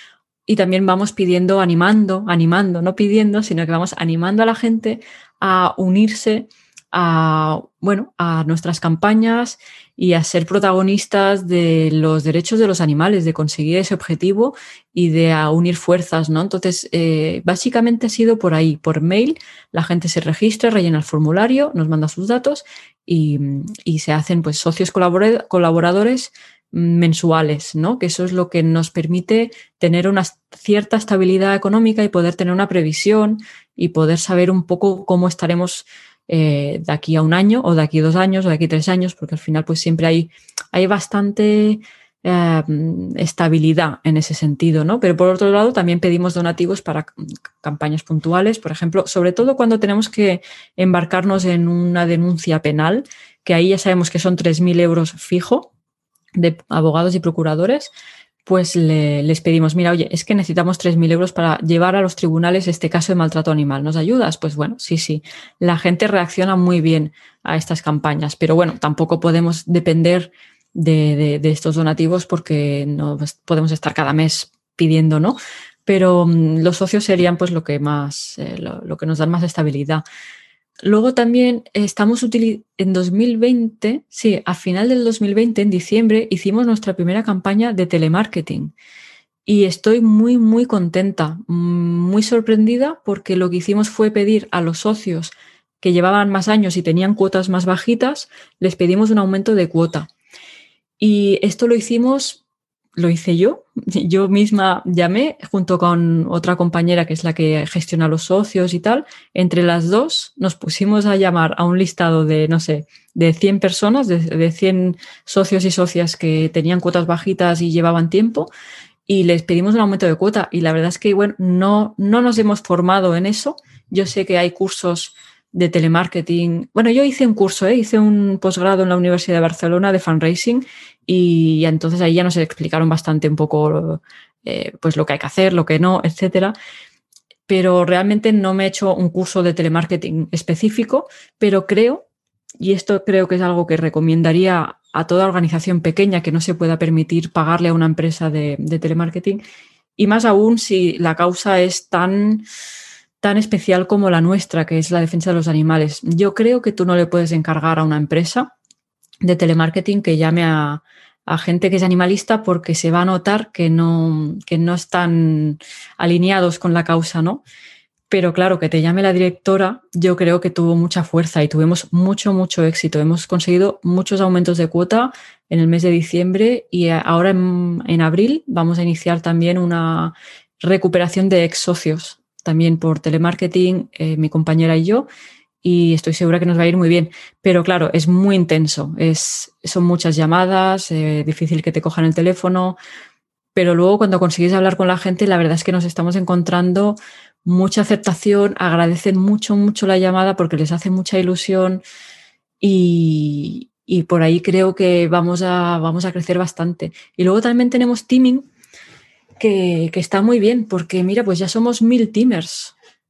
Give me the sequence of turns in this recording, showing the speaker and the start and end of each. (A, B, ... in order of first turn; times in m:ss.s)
0:00.5-0:55.7 A
0:56.4-0:57.9 A
0:58.5-1:20.0 A
1:20.8-1:28.7 A
1:29.5-1:40.1 A
1:41.0-1:42.4 A
1:43.0-1:58.5 A
1:59.1-2:16.6 A
2:17.5-2:22.0 A
2:22.6-2:29.4 A
2:30.0-2:32.5 A
2:33.2-2:38.5 A
2:39.2-2:47.4 A
2:48.1-3:05.1 A
3:05.6-3:12.8 A
3:13.6-3:21.8 A
3:22.6-3:28.5 A
3:29.4-3:32.7 A